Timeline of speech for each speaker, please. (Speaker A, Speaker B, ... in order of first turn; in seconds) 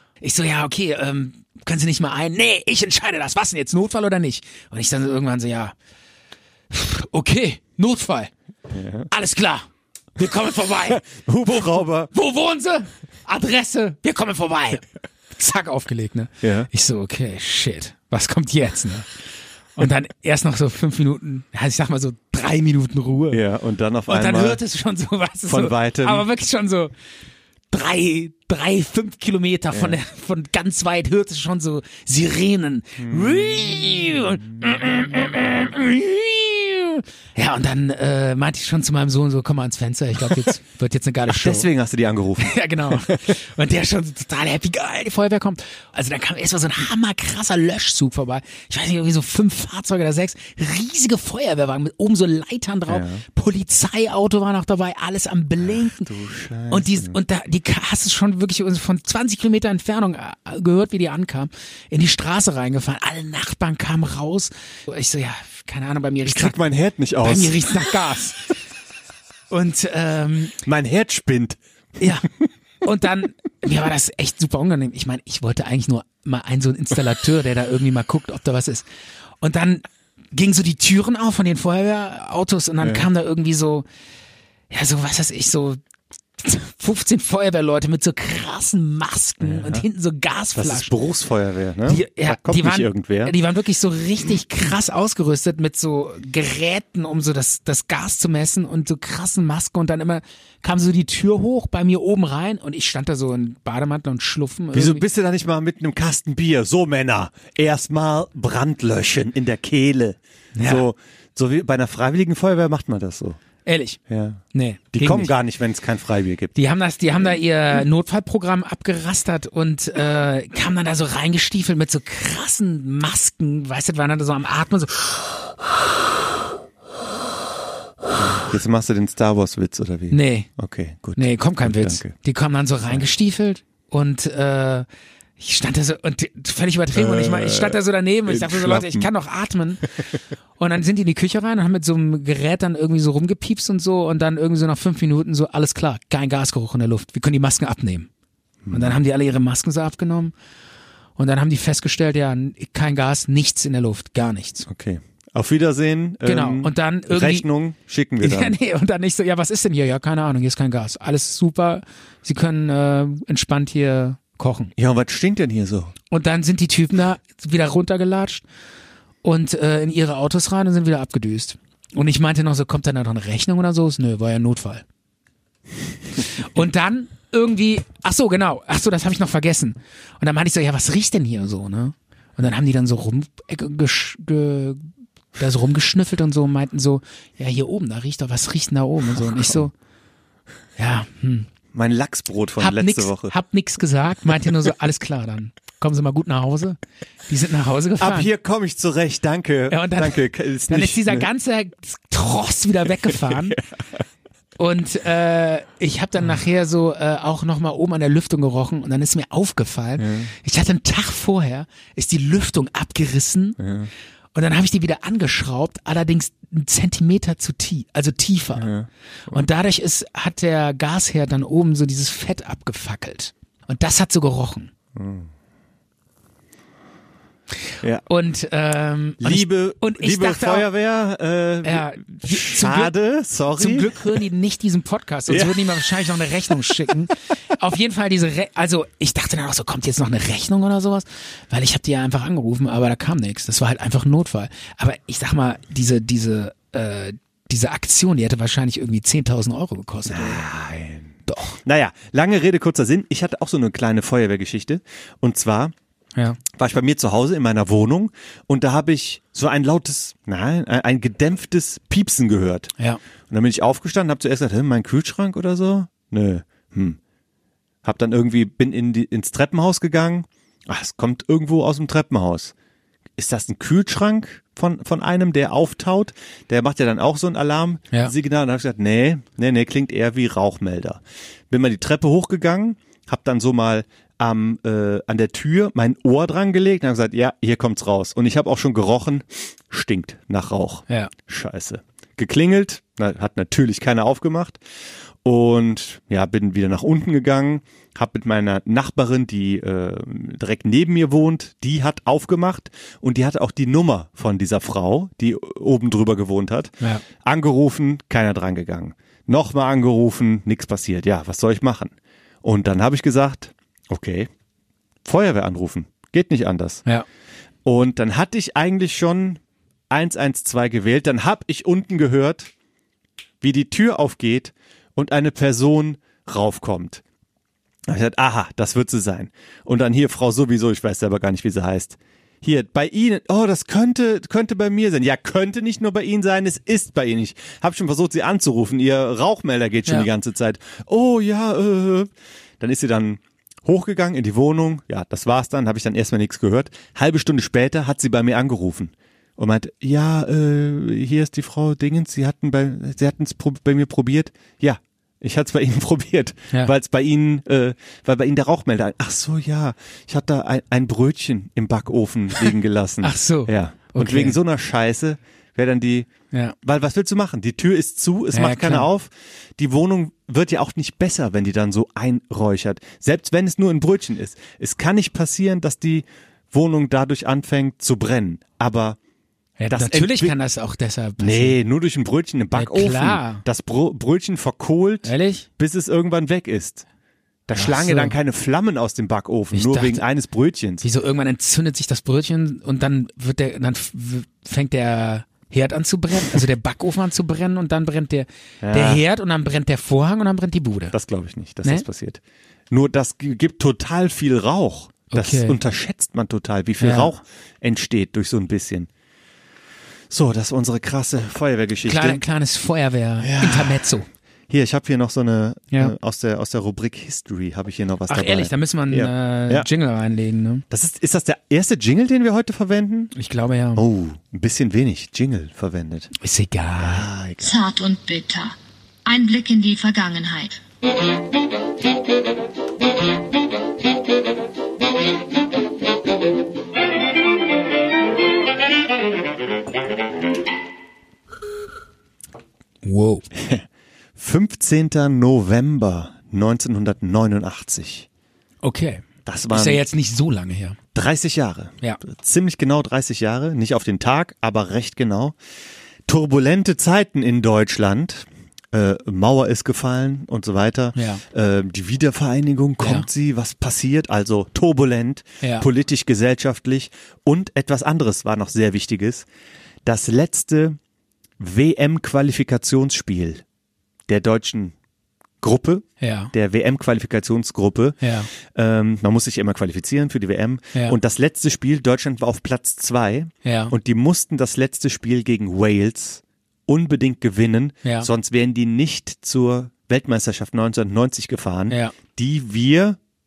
Speaker A: 0.2-5.8, 6.7-8.3, 9.1-19.1, 19.8-23.4, 24.1-26.9, 27.7-41.7, 42.4-56.1, 56.7-66.6, 67.2-68.5, 69.5-70.5, 72.0-72.3, 72.8-78.9, 79.4-83.8, 84.7-85.8, 86.4-90.9, 91.9-105.0, 110.5-110.9, 113.7-114.0, 114.5-115.3, 116.5-125.4, 130.1-130.5, 131.2-134.9, 135.4-148.1, 148.7-150.3, 151.2-154.7, 156.2-157.5, 158.2-164.7, 166.1-168.4, 169.2-174.8, 176.2-189.7, 190.8-191.5, 192.6-198.3, 199.7-203.6, 204.6-213.6, 214.3-218.7, 219.3-224.7, 228.1-230.7, 231.6-232.9, 233.6-250.4, 251.3-251.6, 363.0-364.4, 368.3-368.9, 379.6-381.6, 382.6-383.4, 385.0-385.5, 387.5-388.1, 389.5-390.0, 390.8-400.9, 405.1-405.6, 406.8-407.1, 411.9-414.1, 418.1-420.6, 423.1-423.8, 426.2-427.1, 442.8-443.3, 448.6-450.8, 460.9-461.2, 462.8-463.1, 465.4-465.7, 476.0-476.3, 478.0-478.3, 483.4-483.8, 487.8-488.1, 491.7-491.9
Speaker B: 8.7-9.1, 10.8-12.1, 16.4-16.7, 23.3-24.6, 25.5-26.3, 29.7-30.0, 33.0-33.5, 41.3-43.2, 52.9-53.2, 55.6-57.2, 66.2-67.8, 70.7-71.6, 82.8-83.1, 89.4-89.8, 90.5-93.3, 104.7-113.4, 114.1-116.5, 128.2-132.1, 136.9-139.1, 148.6-149.0, 154.7-158.6, 164.8-165.9, 189.2-189.7, 191.7-193.3, 198.0-201.3, 203.1-203.6, 210.0-210.3, 213.6-213.9, 218.6-219.5, 224.9-225.3, 229.2-234.1, 235.3-235.7, 250.1-255.7, 256.5-262.7, 263.3-267.0, 267.8-272.5, 273.2-294.6, 295.2-314.3, 315.1-316.8, 317.6-322.5, 323.4-327.0, 327.9-366.1, 366.6-379.0, 379.7-380.4, 381.2-386.9, 387.5-390.8, 398.6-399.0, 400.9-408.9, 410.1-412.2, 413.2-414.0, 414.5-419.7, 420.7-423.1, 423.8-426.1, 426.8-427.6, 443.3-448.1, 449.3-449.8, 450.9-455.4, 456.1-469.3, 469.9-470.8, 471.4-473.4, 474.1-474.8, 475.4-493.0
Speaker C: 427.4-430.6